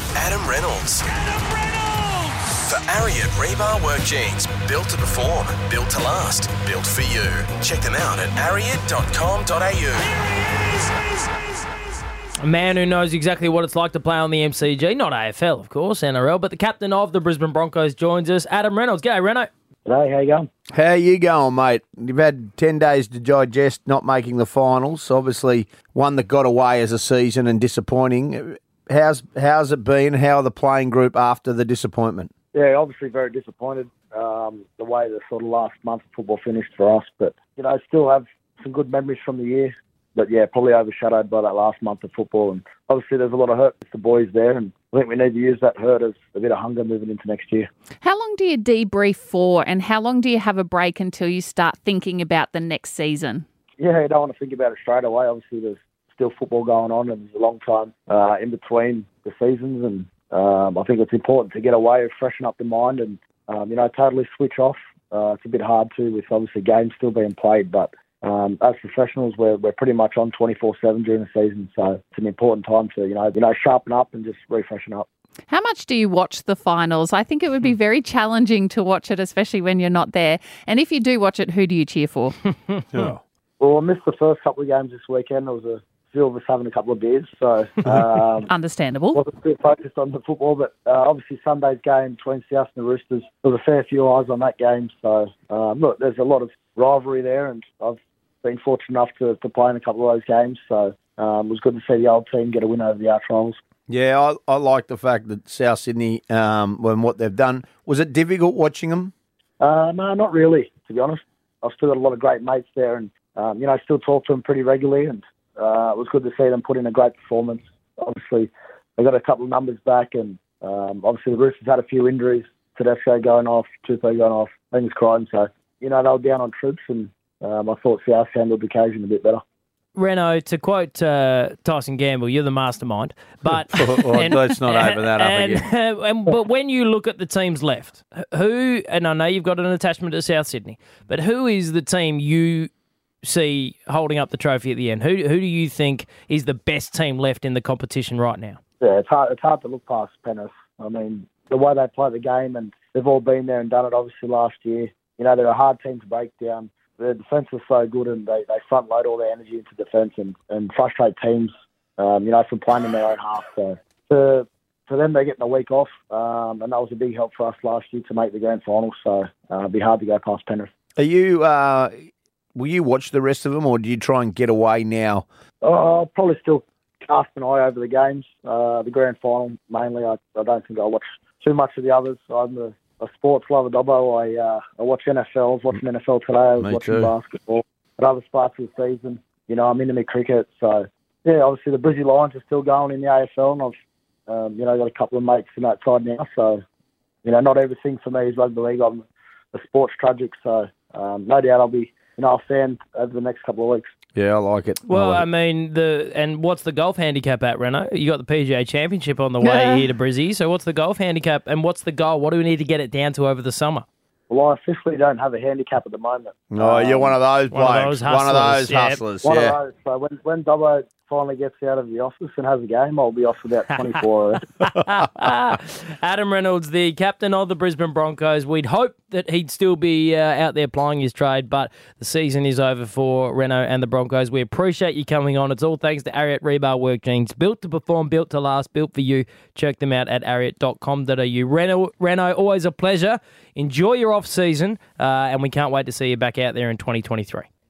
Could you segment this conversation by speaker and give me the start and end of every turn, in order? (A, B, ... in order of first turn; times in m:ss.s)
0:00.1-0:02.0 A
0:02.6-0:10.8 A
0:12.4-0:19.5 B
0:19.8-0:20.5 C
0:20.7-0:32.3 D
0:32.5-0:47.7 C
0:48.0-0:53.4 E
0:53.8-1:15.1 C
1:15.5-1:22.4 E
1:22.7-1:23.1 B
1:22.9-1:23.2 D
1:23.6-1:28.5 C
1:28.5-1:29.2 E
1:29.1-1:43.6 C
1:43.9-1:49.1 D
1:49.6-2:09.4 C
2:09.9-2:22.7 B
2:13.6-2:15.7 D
2:23.2-2:28.6 B
2:28.8-2:50.7 C
2:51.0-2:51.9 D
2:52.5-2:55.2 D
2:55.6-3:13.7 C
3:06.6-3:07.1 D
3:14.3-3:16.6 C
3:17.2-3:23.9 C
3:24.2-3:25.2 D
3:24.9-3:33.8 B
3:29.4-3:29.9 E
3:34.3-3:37.1 C
3:36.5-3:39.6 D
3:37.5-3:39.0 B
3:39.2-3:44.4 C
3:43.7-3:44.0 B
3:44.6-4:07.5 B